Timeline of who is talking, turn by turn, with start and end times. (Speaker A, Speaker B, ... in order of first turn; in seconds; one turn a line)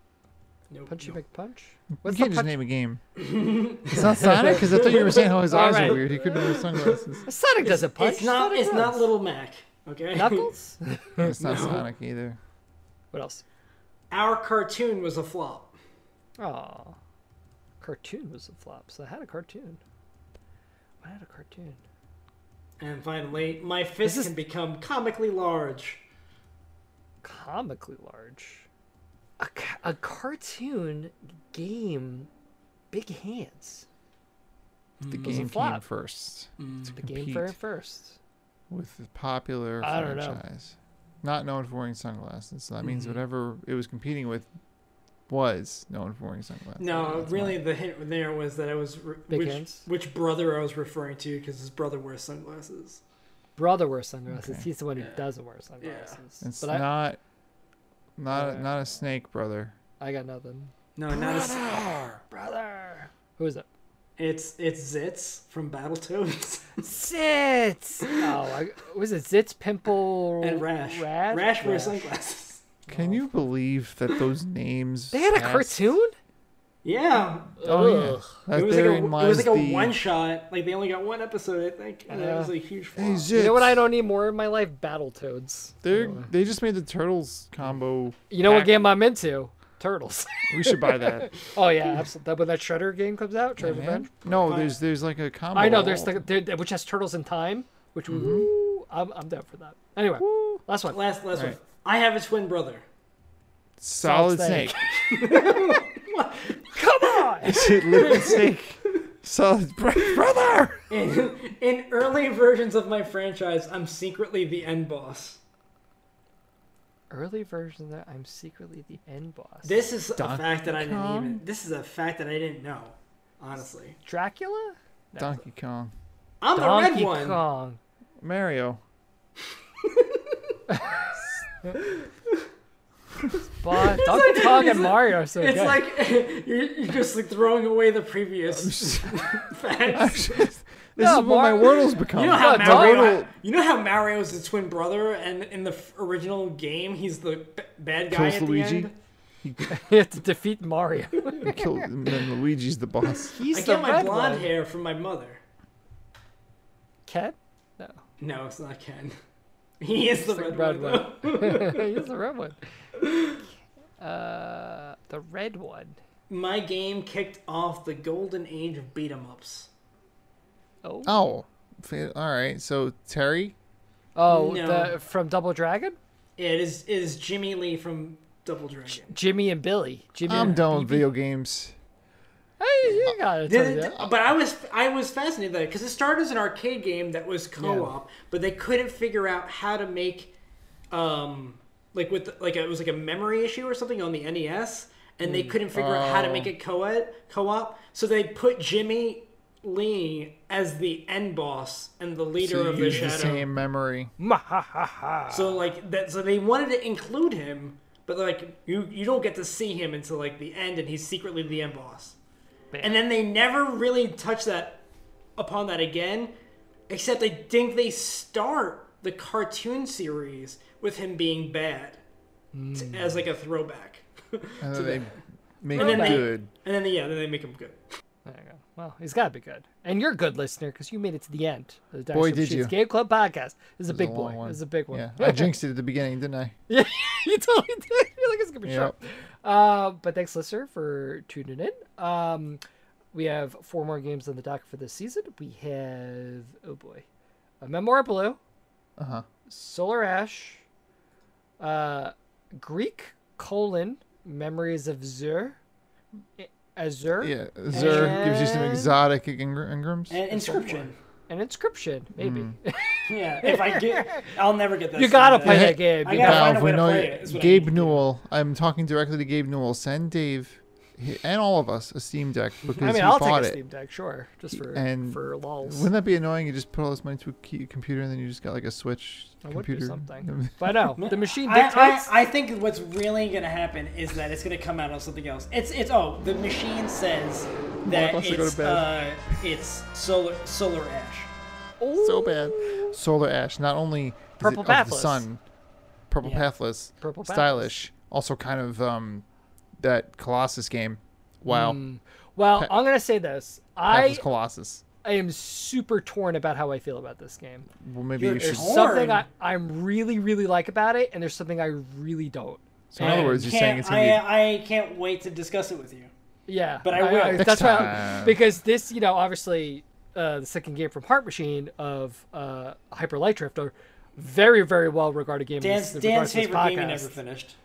Speaker A: 0.7-1.2
Speaker B: 0.9-2.5
Speaker C: 2.0-3.0
Speaker A: 3.1-7.0
Speaker C: 3.9-7.2
Speaker B: 4.0-6.1
Speaker B: 7.3-9.1
Speaker A: 7.6-10.5
Speaker B: 10.1-11.4
Speaker C: 11.2-12.4
Speaker A: 11.4-11.8
Speaker B: 13.1-13.4
Speaker A: 14.1-15.7
Speaker B: 16.4-17.0
Speaker B: 17.8-19.8
Speaker B: 21.0-21.8
Speaker A: 22.8-26.0
Speaker B: 24.0-24.3
Speaker B: 27.2-28.7
Speaker B: 29.4-32.3
Speaker B: 32.9-33.8
Speaker A: 35.0-35.5
Speaker C: 35.1-37.5
Speaker B: 35.1-35.8
Speaker A: 36.6-36.9
Speaker B: 37.0-38.2
Speaker C: 38.7-44.5
Speaker B: 39.8-40.4
Speaker A: 42.8-43.2
Speaker C: 45.3-47.6
Speaker A: 46.8-53.0
Speaker B: 49.3-49.9
Speaker B: 53.6-56.9
Speaker C: 54.3-54.6
Speaker A: 55.0-55.2
Speaker A: 55.8-56.2
Speaker C: 56.4-57.2
Speaker C: 58.2-59.7
Speaker B: 58.3-58.7
Speaker B: 60.0-60.7
Speaker A: 61.0-61.9
Speaker B: 62.3-63.6
Speaker A: 64.2-66.9
Speaker B: 66.8-72.1
Speaker A: 70.4-72.8
Speaker C: 72.9-75.9
Speaker B: 75.1-76.1
Speaker A: 76.8-77.6
Speaker B: 77.6-78.4
Speaker C: 77.6-80.0
Speaker A: 78.5-83.3
Speaker B: 82.1-82.5
Speaker C: 83.0-83.8
Speaker B: 83.3-86.3
Speaker C: 85.8-88.9
Speaker B: 88.3-94.1
Speaker C: 90.5-91.3
Speaker C: 93.6-96.2
Speaker A: 94.4-94.7
Speaker B: 95.5-101.0
Speaker A: 98.1-98.3
Speaker C: 98.1-98.5
Speaker C: 100.3-100.6
Speaker A: 100.9-102.8
Speaker C: 103.8-104.7
Speaker B: 104.0-105.8
Speaker A: 105.0-108.5
Speaker B: 106.7-108.3
Speaker C: 107.4-110.9
Speaker A: 110.9-115.4
Speaker B: 117.1-119.8
Speaker A: 119.6-124.0
Speaker C: 120.2-121.4
Speaker B: 124.0-125.4
Speaker C: 125.2-125.9
Speaker A: 126.4-127.4
Speaker B: 126.5-127.8
Speaker C: 128.2-128.8
Speaker A: 129.8-130.4
Speaker A: 131.8-132.4
Speaker B: 133.6-135.8
Speaker A: 133.9-140.5
Speaker C: 138.5-139.2
Speaker C: 139.9-143.3
Speaker B: 141.0-143.2
Speaker A: 142.1-148.9
Speaker C: 148.1-148.9
Speaker C: 149.4-149.7
Speaker B: 149.7-151.9
Speaker C: 151.4-153.4
Speaker B: 153.3-154.5
Speaker A: 153.5-155.4
Speaker B: 157.1-158.0
Speaker A: 158.2-159.2
Speaker A: 159.8-162.0
Speaker B: 160.2-162.6
Speaker A: 162.9-163.4
Speaker B: 164.0-166.0
Speaker A: 166.3-169.7
Speaker B: 170.8-171.1
Speaker C: 171.0-173.5
Speaker B: 174.1-176.0
Speaker A: 174.3-175.0
Speaker A: 176.4-179.1
Speaker B: 179.1-181.1
Speaker C: 180.3-181.7
Speaker B: 182.6-184.0
Speaker C: 182.9-183.1
Speaker A: 183.4-190.3
Speaker B: 187.6-187.9
Speaker A: 190.9-203.5
Speaker B: 195.2-195.6
Speaker C: 195.7-196.5
Speaker C: 202.4-204.1
Speaker B: 202.8-203.1
Speaker B: 204.2-205.6
Speaker A: 205.3-212.2
Speaker B: 212.7-213.0
Speaker A: 212.8-214.8
Speaker A: 215.4-216.3
Speaker A: 216.9-222.0
Speaker B: 222.5-223.2
Speaker A: 222.7-225.1
Speaker C: 224.6-226.5
Speaker B: 225.7-226.3
Speaker A: 225.7-227.8
Speaker B: 228.2-235.5
Speaker C: 232.1-232.7
Speaker C: 233.9-236.5
Speaker B: 236.7-242.6
Speaker C: 238.6-238.9
Speaker B: 243.1-247.0
Speaker B: 247.6-248.4
Speaker C: 249.0-249.2
Speaker B: 249.5-250.6
Speaker B: 251.6-255.6
Speaker B: 256.4-259.0
Speaker C: 257.2-260.2
Speaker A: 257.7-258.7
Speaker A: 260.1-260.9
Speaker B: 260.3-264.3
Speaker C: 262.2-262.5
Speaker A: 263.1-268.0
Speaker B: 264.9-266.6
Speaker C: 265.4-273.6
Speaker B: 272.7-275.9
Speaker C: 274.7-280.6
Speaker B: 279.4-282.1
Speaker A: 281.0-291.3
Speaker C: 287.8-289.0
Speaker B: 291.8-293.0
Speaker C: 292.0-295.4
Speaker B: 294.4-295.2
Speaker C: 296.1-299.2
Speaker A: 296.2-296.5
Speaker B: 297.0-297.7
Speaker C: 299.8-301.8
Speaker B: 301.5-304.2
Speaker C: 303.9-304.8
Speaker B: 305.0-307.7
Speaker C: 307.8-308.9
Speaker A: 308.2-309.3
Speaker B: 308.4-313.4
Speaker C: 312.9-314.2
Speaker A: 313.0-316.1
Speaker B: 316.5-327.1
Speaker A: 316.8-317.9
Speaker C: 317.4-318.4
Speaker A: 325.6-327.5